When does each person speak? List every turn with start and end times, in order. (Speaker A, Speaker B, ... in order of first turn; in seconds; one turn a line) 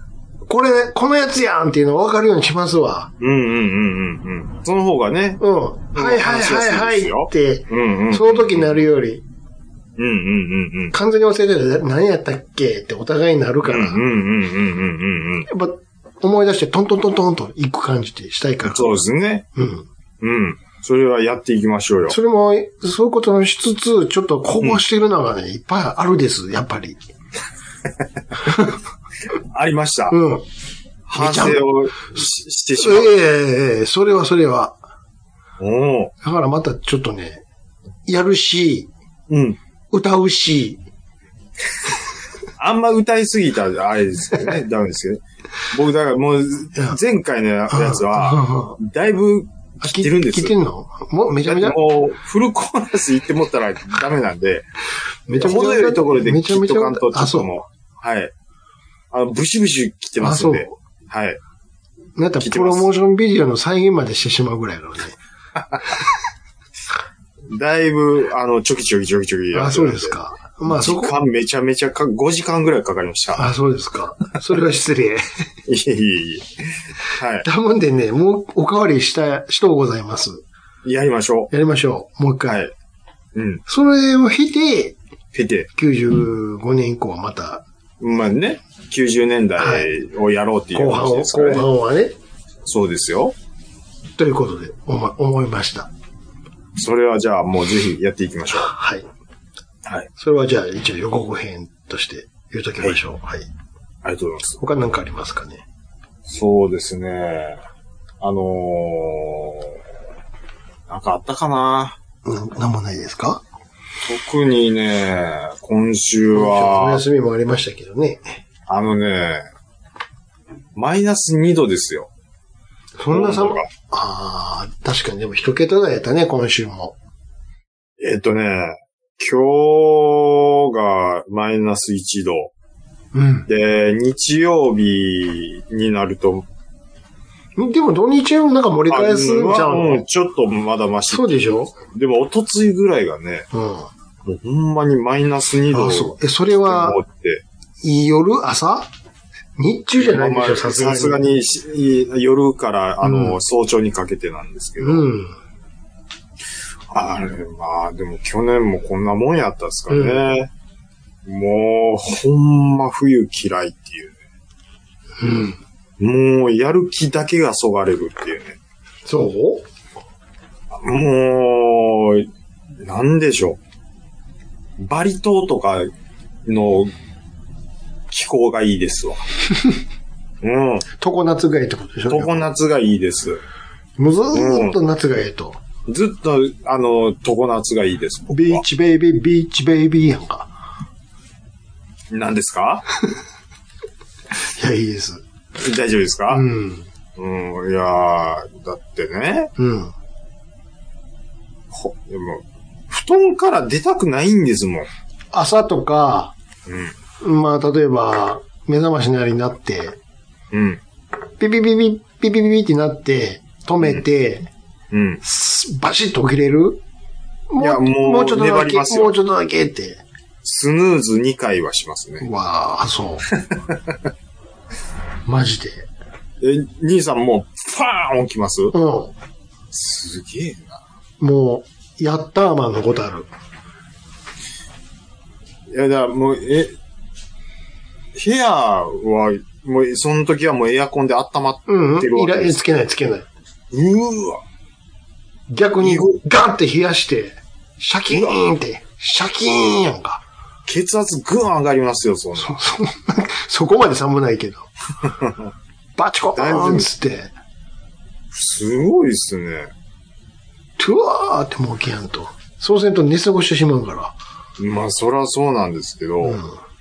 Speaker A: 0.5-3.1
Speaker B: 3.2-5.4
Speaker A: 5.4-9.2
Speaker B: 5.9-8.8
Speaker B: 10.0-10.9
Speaker A: 10.9-14.0
Speaker B: 13.6-15.5
Speaker A: 15.5-19.0
Speaker B: 18.7-19.5
Speaker A: 19.6-19.9
Speaker B: 20.2-22.2
Speaker A: 22.1-27.0
Speaker A: 28.5-28.7
Speaker B: 29.5-30.2
Speaker A: 30.1-30.4
Speaker B: 31.1-33.2
Speaker A: 31.1-31.6
Speaker A: 32.8-34.8
Speaker B: 35.6-36.1
Speaker A: 36.2-37.4
Speaker A: 38.1-38.9
Speaker B: 39.3-39.6
Speaker A: 39.9-40.8
Speaker B: 42.6-50.5
Speaker A: 47.7-48.8
Speaker A: 49.8-51.8
Speaker B: 51.4-54.7
Speaker A: 55.3-57.6
Speaker B: 55.3-58.3
Speaker B: 59.1-61.4
Speaker A: 60.2-60.8
Speaker A: 62.2-65.2
Speaker B: 62.4-62.9
Speaker B: 67.5-70.1
Speaker A: 69.5-71.2
Speaker B: 70.7-73.5
Speaker A: 73.3-75.3
Speaker B: 75.7-77.5
Speaker A: 77.4-80.4
Speaker B: 80.8-81.5
Speaker A: 81.5-82.6
Speaker B: 82.5-82.7
Speaker B: 83.3-83.6
Speaker A: 83.7-85.0
Speaker B: 85.3-85.7
Speaker A: 85.8-87.6
Speaker B: 88.0-91.7
Speaker A: 89.6-89.9
Speaker A: 90.7-92.1
Speaker B: 92.7-93.3
Speaker A: 94.2-95.9
Speaker B: 96.8-98.7
Speaker A: 98.5-99.1
Speaker A: 100.2-103.5
Speaker B: 104.0-104.6
Speaker A: 104.6-105.6
Speaker B: 106.2-107.6
Speaker B: 108.2-109.8
Speaker B: 110.9-112.0
Speaker A: 112.2-113.4
Speaker B: 114.0-117.0
Speaker A: 116.3-118.4
Speaker B: 118.7-119.5
Speaker B: 120.8-122.1
Speaker A: 123.0-127.0
Speaker B: 123.1-123.7
Speaker B: 128.0-132.5
Speaker A: 133.1-133.5
Speaker B: 133.5-136.5
Speaker A: 137.6-140.0
Speaker B: 138.9-143.5
Speaker A: 141.1-141.7
Speaker A: 143.5-143.9
Speaker B: 144.2-147.4
Speaker A: 145.7-147.0
Speaker A: 147.8-148.9
Speaker A: 149.6-151.2
Speaker B: 150.0-155.1
Speaker A: 153.0-153.4
Speaker A: 154.8-155.3
Speaker B: 156.9-160.5
Speaker A: 159.9-160.3
Speaker B: 161.2-164.2
Speaker A: 165.2-165.6
Speaker B: 166.0-168.6
Speaker A: 169.1-169.7
Speaker B: 170.7-172.3
Speaker B: 172.8-173.6
Speaker B: 174.8-175.9
Speaker B: 176.4-176.9
Speaker B: 178.1-179.3
Speaker B: 180.4-180.9
Speaker A: 181.0-182.5
Speaker B: 182.1-183.4
Speaker A: 184.0-185.6
Speaker B: 184.3-184.8
Speaker B: 185.9-188.6
Speaker A: 188.3-190.5
Speaker B: 192.1-192.8
Speaker A: 194.4-195.2
Speaker B: 195.6-196.4
Speaker A: 196.3-196.9
Speaker B: 197.2-199.5
Speaker A: 199.6-199.9
Speaker B: 201.7-204.9
Speaker A: 205.3-206.3
Speaker B: 206.7-206.9
Speaker A: 207.2-210.0
Speaker B: 210.5-210.8
Speaker A: 211.4-214.5
Speaker B: 214.9-215.2
Speaker A: 215.2-216.8
Speaker A: 217.5-220.0
Speaker B: 217.6-219.2
Speaker B: 220.4-222.3
Speaker A: 222.2-223.3
Speaker B: 223.3-224.0
Speaker A: 225.3-225.9
Speaker B: 226.4-228.7
Speaker A: 228.7-229.1
Speaker B: 229.7-230.8
Speaker A: 231.2-233.3
Speaker B: 235.7-236.8
Speaker B: 238.2-242.6
Speaker A: 241.7-243.3
Speaker B: 243.7-244.4
Speaker A: 245.5-250.2
Speaker B: 245.8-246.2
Speaker B: 250.7-252.6
Speaker A: 252.4-254.7
Speaker B: 255.2-255.5
Speaker A: 256.0-257.3
Speaker B: 256.4-256.9
Speaker B: 258.3-259.7
Speaker A: 260.8-264.1
Speaker B: 264.6-266.4
Speaker A: 266.2-266.6